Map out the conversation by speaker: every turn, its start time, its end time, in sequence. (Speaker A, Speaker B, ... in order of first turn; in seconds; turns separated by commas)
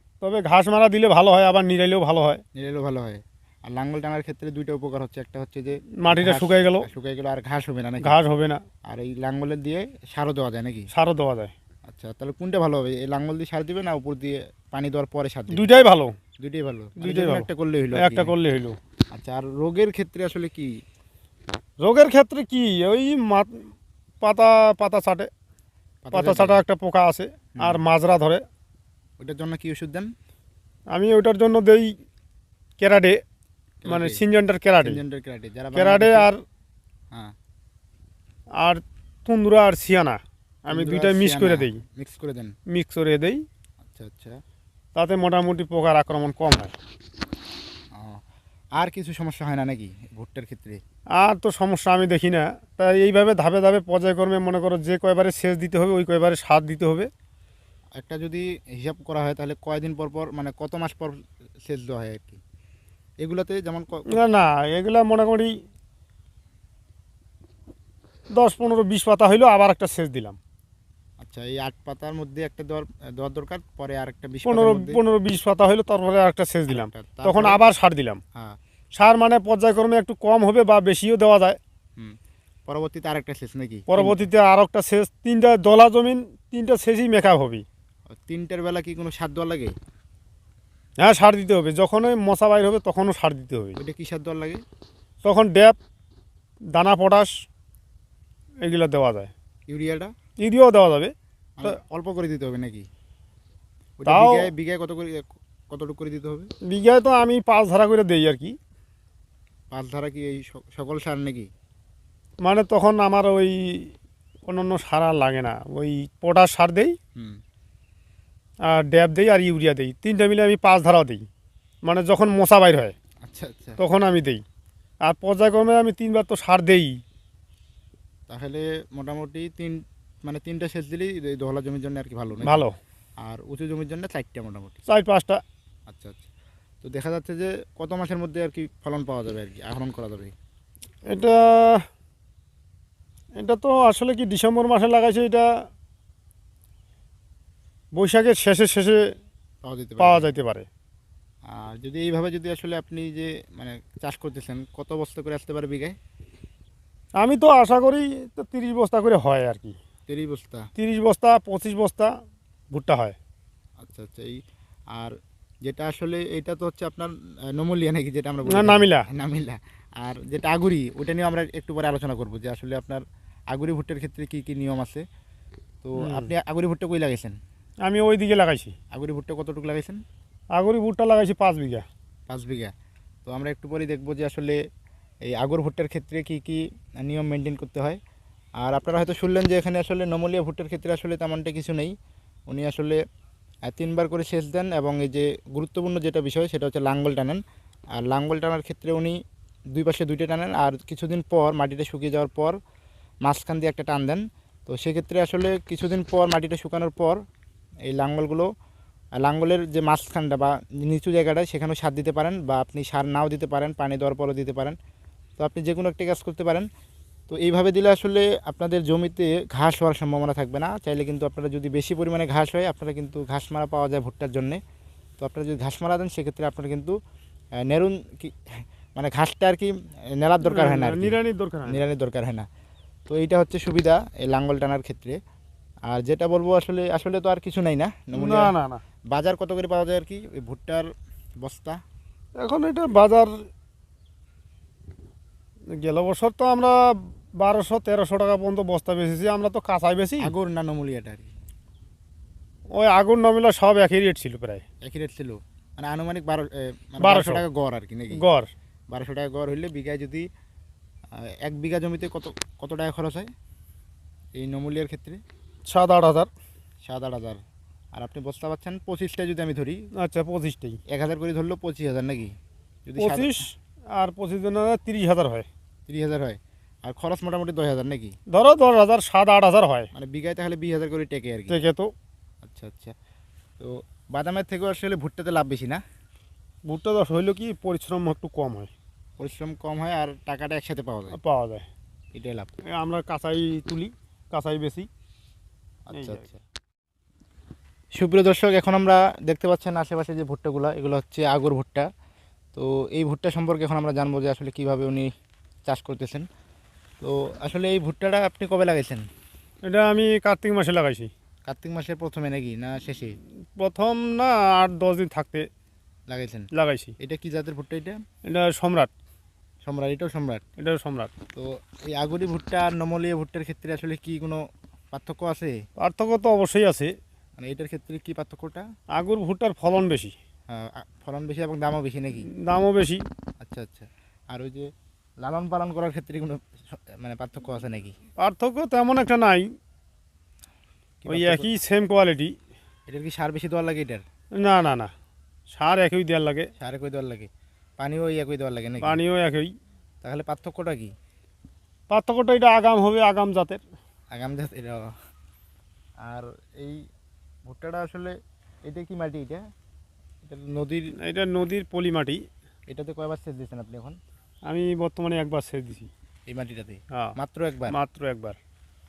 Speaker A: 0.2-2.4, Speaker B: 2.6-8.2, Speaker A: 6.0-6.9, Speaker A: 8.0-8.6, Speaker B: 8.9-10.9, Speaker A: 10.9-11.5, Speaker B: 11.9-15.7, Speaker A: 15.5-16.1, Speaker B: 16.4-18.3, Speaker A: 17.0-18.8, Speaker B: 19.1-20.7, Speaker A: 21.8-23.6, Speaker A: 24.2-25.3, Speaker B: 26.1-26.6, Speaker A: 26.1-28.4, Speaker B: 29.2-30.1, Speaker A: 30.9-31.9, Speaker A: 32.8-33.2, Speaker B: 33.8-34.2, Speaker A: 33.9-35.0, Speaker B: 34.8-36.3, Speaker A: 35.8-36.4, Speaker A: 38.6-41.8, Speaker B: 40.7-42.5, Speaker A: 42.7-43.4, Speaker B: 43.8-44.4, Speaker A: 45.0-46.7, Speaker B: 48.0-48.2, Speaker B: 48.8-50.8, Speaker A: 51.2-57.1, Speaker B: 58.0-62.4, Speaker B: 63.2-64.1, Speaker A: 64.1-65.5, Speaker A: 68.3-70.4, Speaker B: 71.2-75.0, Speaker A: 74.5-78.2, Speaker B: 76.7-77.6, Speaker A: 79.0-81.6, Speaker B: 82.7-84.2, Speaker A: 83.9-87.7, Speaker B: 88.1-89.7, Speaker A: 91.0-93.8, Speaker B: 93.8-94.6, Speaker A: 95.2-95.8, Speaker A: 96.7-97.3, Speaker A: 98.6-99.3, Speaker B: 99.7-100.1, Speaker A: 100.4-101.8, Speaker B: 101.6-102.9, Speaker B: 104.0-106.5, Speaker A: 104.1-104.5, Speaker A: 106.7-108.6, Speaker B: 109.7-111.5, Speaker A: 112.4-113.9, Speaker A: 114.5-117.0, Speaker A: 118.7-121.2, Speaker A: 121.9-122.9, Speaker B: 123.2-123.8, Speaker A: 123.8-124.4, Speaker A: 125.0-127.0, Speaker B: 128.3-132.6, Speaker A: 132.4-132.8, Speaker B: 133.2-134.8, Speaker A: 134.9-135.4, Speaker B: 135.9-136.3, Speaker B: 136.8-140.3, Speaker A: 141.1-141.8, Speaker A: 143.4-145.5, Speaker A: 148.0-149.0, Speaker B: 149.6-150.3, Speaker A: 150.0-150.7, Speaker B: 151.5-156.0, Speaker A: 157.2-159.8, Speaker B: 160.1-160.7, Speaker A: 160.8-162.1, Speaker A: 162.7-163.2, Speaker B: 163.8-164.4, Speaker B: 164.9-175.0, Speaker A: 168.5-169.1, Speaker B: 175.8-177.4, Speaker A: 176.0-176.3, Speaker A: 177.8-178.7, Speaker B: 178.9-180.0, Speaker A: 180.6-181.8, Speaker B: 182.3-182.7, Speaker B: 183.3-184.6, Speaker B: 185.3-188.0, Speaker B: 188.6-191.9, Speaker B: 192.5-193.0, Speaker B: 193.7-197.4, Speaker B: 198.0-199.2, Speaker B: 199.7-202.6, Speaker B: 203.2-207.2, Speaker B: 207.9-208.5, Speaker B: 209.2-214.8, Speaker B: 215.4-216.7, Speaker B: 217.3-224.6, Speaker B: 225.2-226.9, Speaker B: 227.6-232.5, Speaker A: 230.4-231.8, Speaker B: 233.1-235.2, Speaker B: 235.9-238.5, Speaker A: 238.2-238.8, Speaker B: 239.1-240.9, Speaker B: 241.4-241.8, Speaker A: 242.4-243.3, Speaker A: 245.7-246.8, Speaker A: 247.4-250.3, Speaker B: 250.2-251.3, Speaker A: 252.7-254.6, Speaker B: 254.8-258.2, Speaker A: 257.0-257.4, Speaker A: 258.1-258.5, Speaker B: 258.9-260.3, Speaker B: 261.2-263.3, Speaker B: 264.4-265.2, Speaker A: 265.6-266.3, Speaker B: 266.9-267.4, Speaker B: 267.9-269.8, Speaker A: 270.0-270.8, Speaker B: 270.9-272.3, Speaker B: 272.9-273.4, Speaker A: 273.0-275.5, Speaker B: 275.9-278.1, Speaker A: 278.3-279.9, Speaker B: 279.9-281.6, Speaker A: 281.5-281.9, Speaker B: 282.4-282.9, Speaker B: 283.6-285.8, Speaker A: 286.7-288.7, Speaker B: 289.2-291.2, Speaker A: 291.1-291.7, Speaker B: 292.1-292.5, Speaker A: 292.7-294.9, Speaker B: 295.9-296.4, Speaker A: 295.9-296.2, Speaker B: 298.0-301.9, Speaker B: 302.6-305.1, Speaker B: 305.7-306.3, Speaker B: 307.0-309.1, Speaker A: 309.7-311.1, Speaker B: 311.5-313.2, Speaker A: 313.6-315.5, Speaker B: 316.1-316.5, Speaker A: 316.5-316.9, Speaker B: 317.0-318.0, Speaker A: 318.3-318.9, Speaker B: 319.6-320.4, Speaker A: 320.6-321.1, Speaker B: 321.3-325.6, Speaker A: 325.8-326.9, Speaker B: 327.4-328.6, Speaker A: 329.0-330.1, Speaker B: 330.5-332.3, Speaker A: 332.4-333.0, Speaker B: 333.4-334.7, Speaker B: 335.2-338.0, Speaker A: 338.2-339.5, Speaker B: 341.0-341.6, Speaker A: 341.1-342.3, Speaker B: 342.9-344.0, Speaker A: 344.4-344.9, Speaker A: 345.5-346.5, Speaker B: 346.6-349.0, Speaker A: 348.8-349.5, Speaker B: 350.0-350.9, Speaker A: 351.9-353.6, Speaker B: 354.1-354.9, Speaker B: 356.1-356.8, Speaker B: 357.5-358.1, Speaker B: 358.7-359.4, Speaker B: 360.2-360.9, Speaker A: 361.0-362.2, Speaker B: 362.7-364.0, Speaker A: 364.5-365.9, Speaker B: 366.3-367.8, Speaker A: 367.7-368.4